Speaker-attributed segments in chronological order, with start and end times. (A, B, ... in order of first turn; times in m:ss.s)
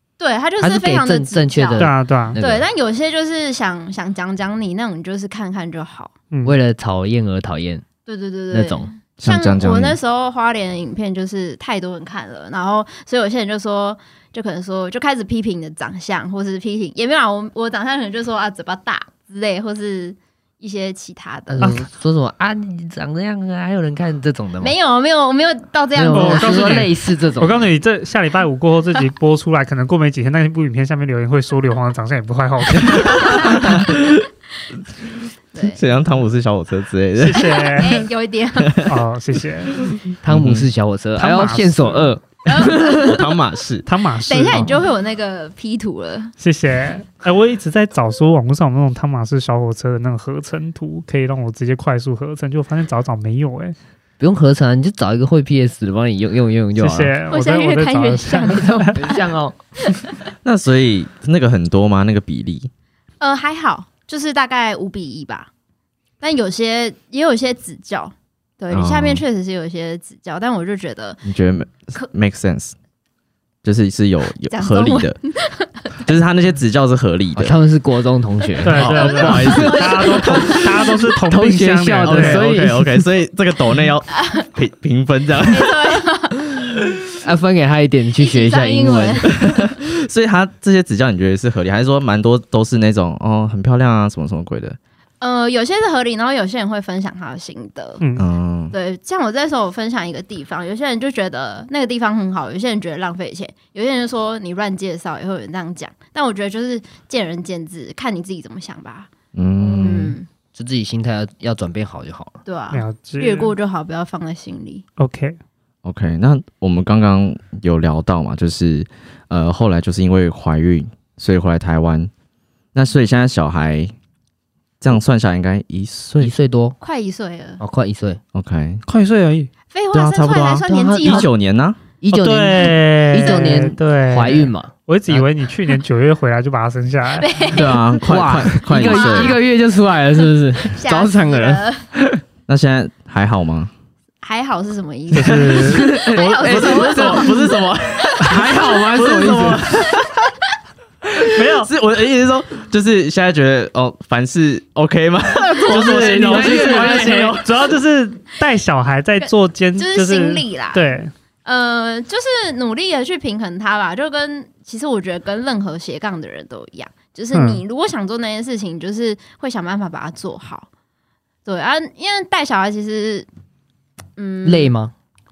0:00.2-0:06.1 A
0:00.6-0:02.7 B
0:01.8-0:02.4 C
0:06.3-0:06.6 C
0:06.4-0:07.8 B
0:08.1-0:21.7 A
0:08.5-0:08.9 B
0:09.2-0:10.0 D
0:21.5-0:24.7 B
0:21.6-0:21.8 C
0:24.6-0:26.9 A
0:25.9-0:27.7 B
0:26.1-0:33.8 C
0:33.0-0:34.2 D
0:33.2-0:33.8 A
0:35.5-0:35.8 A
0:35.6-0:37.8 D
0:37.2-0:38.1 C
0:37.5-0:38.9 A
0:38.6-0:38.9 D
0:38.8-0:39.8 C
0:40.2-0:43.3 B
0:40.3-0:40.7 D
0:41.2-0:42.1 C
0:42.5-0:43.1 A
0:42.6-0:43.9 D
0:43.8-0:44.8 C
0:44.2-0:46.3 A
0:46.4-0:53.8 C
0:54.2-0:57.2 B
0:56.8-0:58.9 C
0:57.3-0:59.3 A
0:58.5-0:59.6 B
0:59.8-1:00.1 A
1:00.4-1:02.7 D
1:03.2-1:05.5 A
1:06.2-1:11.2 A
1:08.7-1:09.2 D
1:11.2-1:12.8 D
1:13.6-1:15.2 D
1:14.5-1:16.0 A
1:16.0-1:17.5 D
1:17.3-1:20.6 B
1:18.6-1:22.4 C
1:18.7-1:20.5 D
1:18.9-1:20.7 A
1:21.2-1:23.0 B
1:22.0-1:26.0 D
1:25.5-1:26.5 A
1:27.2-1:29.4 B
1:28.2-1:29.7 A
1:29.3-1:34.8 D
1:35.2-1:38.0 A
1:38.2-1:38.7 D
1:38.7-1:50.3 A
1:49.3-1:50.2 D
1:50.5-1:52.4 B
1:52.4-1:54.8 A
1:52.7-1:53.5 C
1:55.0-1:55.4 C
1:55.8-2:02.1 D
2:02.7-2:03.9 D
2:04.8-2:06.3 D
2:06.2-2:06.8 B
2:06.8-2:07.6 A
2:07.6-2:08.2 B
2:08.3-2:08.8 D
2:08.8-2:09.5 C
2:09.7-2:11.3 A
2:09.9-2:11.8 D
2:10.7-2:11.3 B
2:12.0-2:15.3 B
2:12.1-2:17.3 C
2:17.2-2:18.0 A
2:17.5-2:19.4 D
2:18.0-2:22.2 B
2:18.6-2:19.4 A
2:20.8-2:21.8 A
2:22.5-2:23.7 D
2:24.2-2:27.6 A
2:25.1-2:25.9 C
2:25.4-2:30.2 D
2:25.5-2:27.4 B
2:28.2-2:29.8 B
2:31.2-2:37.4 D
2:31.3-2:31.7 C
2:35.3-2:36.1 A
2:35.7-2:41.1 C
2:35.8-2:37.4 B
2:39.2-2:40.8 A
2:41.4-2:50.7 A
2:47.3-2:47.6 C
2:51.4-2:53.3 A
2:54.2-2:54.7 A
2:54.4-2:54.9 B